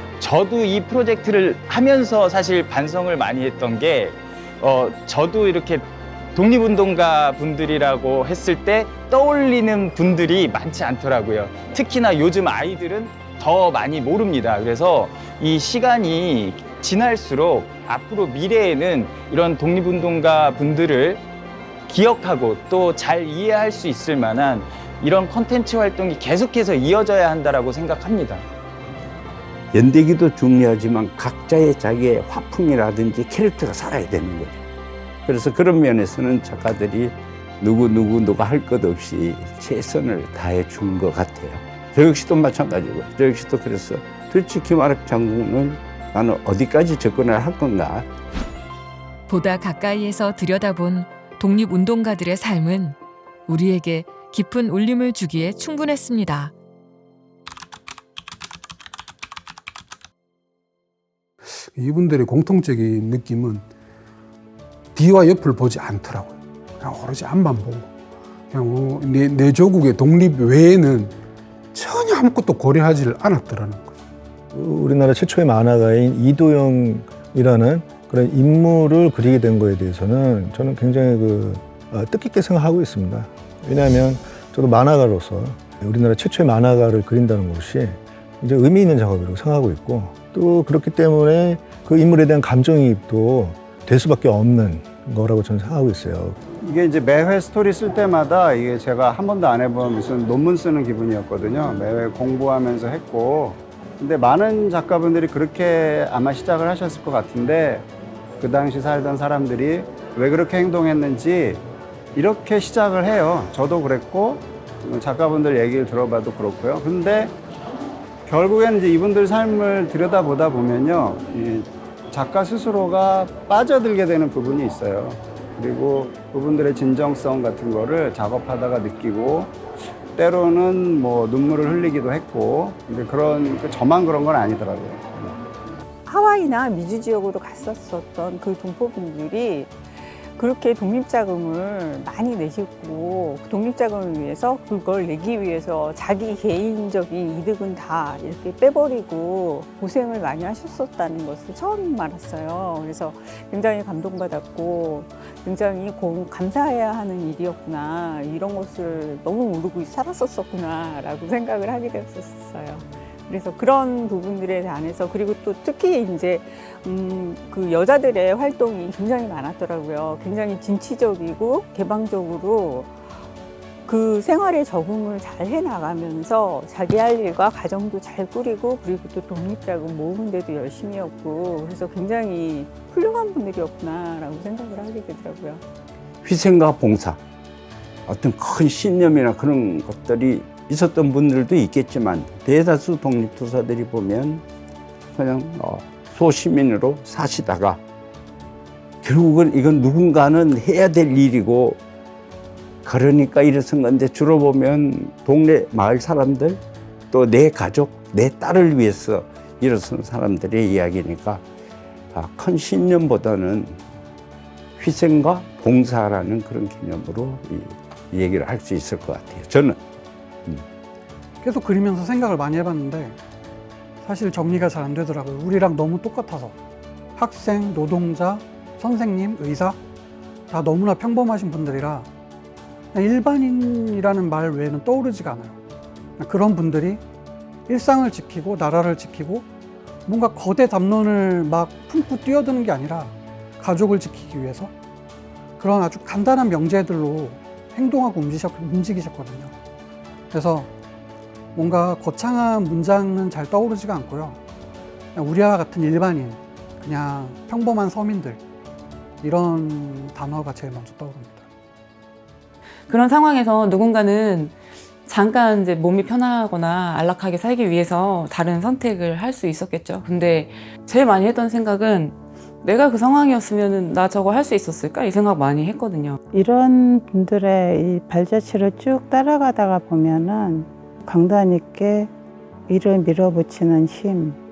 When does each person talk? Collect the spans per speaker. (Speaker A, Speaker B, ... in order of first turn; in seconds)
Speaker A: 0.2-21.2, 21.9-28.4
Speaker B: 29.7-34.6, 35.2-48.1, 186.2-187.2, 188.1-194.4, 195.1-197.8, 199.0-201.8, 202.8-211.4, 212.1-213.8, 214.8-219.8
Speaker C: 49.3-53.0, 53.5-56.5
Speaker D: 61.5-63.6, 64.9-67.9, 68.5-71.2, 71.7-73.9
Speaker E: 74.5-96.4
Speaker F: 96.6-107.9, 108.4-111.6, 112.1-117.3, 118.2-129.6, 130.1-135.3
Speaker G: 136.1-139.8, 140.3-172.9, 173.9-185.6
Speaker H: 221.4-223.2, 224.0-226.5, 227.2-229.8, 230.5-232.1, 232.9-235.6, 236.2-237.0, 237.7-239.4, 240.1-244.7, 245.6-249.5, 250.3-250.7, 251.5-254.4, 255.1-258.4, 259.2-261.4
Speaker I: 262.9-264.5, 265.1-276.2
Speaker J: 276.3-282.1, 282.7-284.4